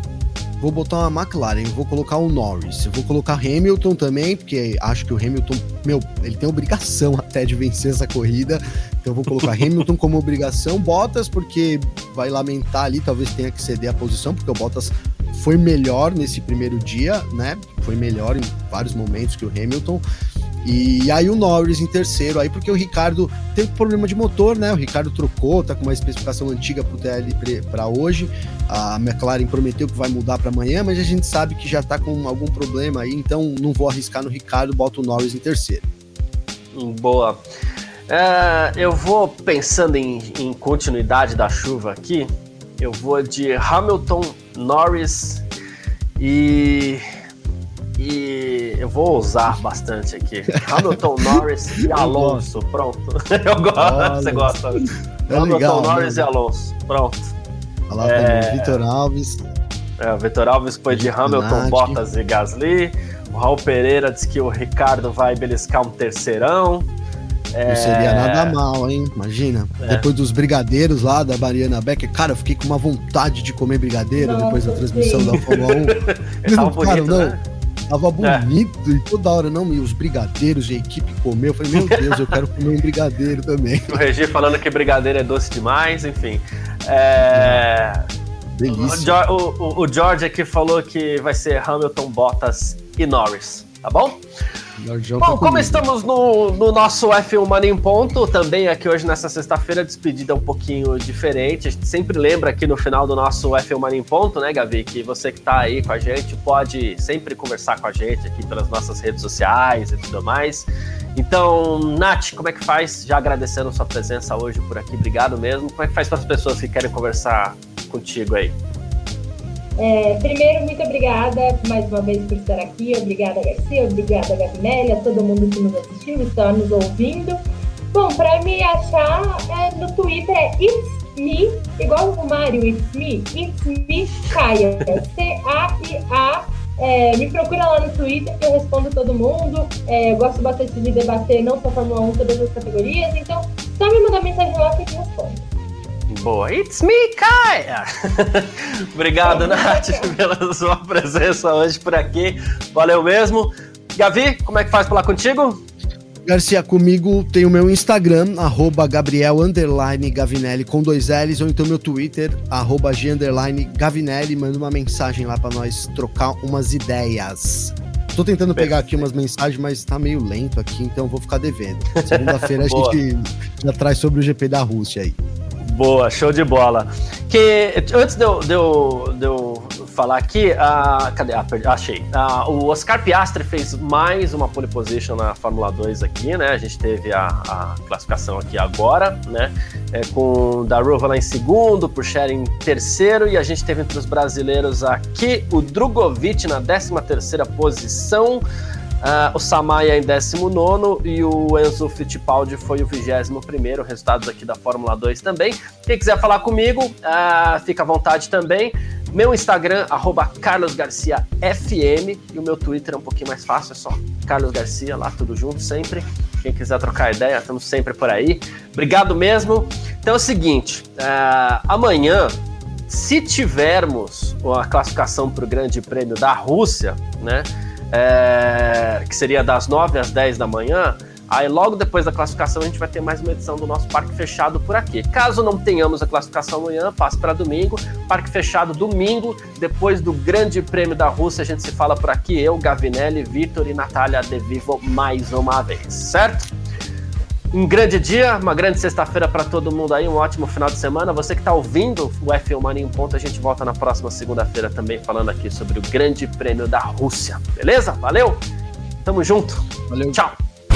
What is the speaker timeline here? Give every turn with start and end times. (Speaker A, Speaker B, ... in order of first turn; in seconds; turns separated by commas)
Speaker A: 0.6-20.0, Speaker B: 9.4-9.7, Speaker A: 20.6-35.8, Speaker B: 36.7-37.4, Speaker B: 38.1-42.3, Speaker B: 42.8-45.5, Speaker B: 46.2-47.0, Speaker B: 48.0-57.3, Speaker A: 50.5-52.5, Speaker A: 53.8-56.3, Speaker A: 57.9-59.4, Speaker B: 58.0-58.8, Speaker B: 60.0-66.9, Speaker A: 60.9-62.0, Speaker B: 67.5-68.6, Speaker A: 67.7-77.4, Speaker B: 69.8-70.1, Speaker C: 74.2-75.5, Speaker B: 75.5-77.4, Speaker A: 77.9-84.0, Speaker B: 78.2-78.5, Speaker B: 81.8-82.4, Speaker B: 83.9-88.0, Speaker A: 87.3-87.7, Speaker A: 88.5-89.2, Speaker B: 88.7-94.2, Speaker A: 94.8-95.8, Speaker B: 95.2-118.6, Speaker C: 119.8-127.4, Speaker C: 127.9-145.5, Speaker B: 146.1-155.6, Speaker C: 149.2-150.1, Speaker A: 156.2-175.2, Speaker B: 168.6-169.1, Speaker B: 172.0-173.0, Speaker B: 175.6-198.4, Speaker B: 199.0-222.3, Speaker B: 222.9-246.5, Speaker B: 247.5-258.4, Speaker B: 259.1-260.4, Speaker A: 259.9-260.2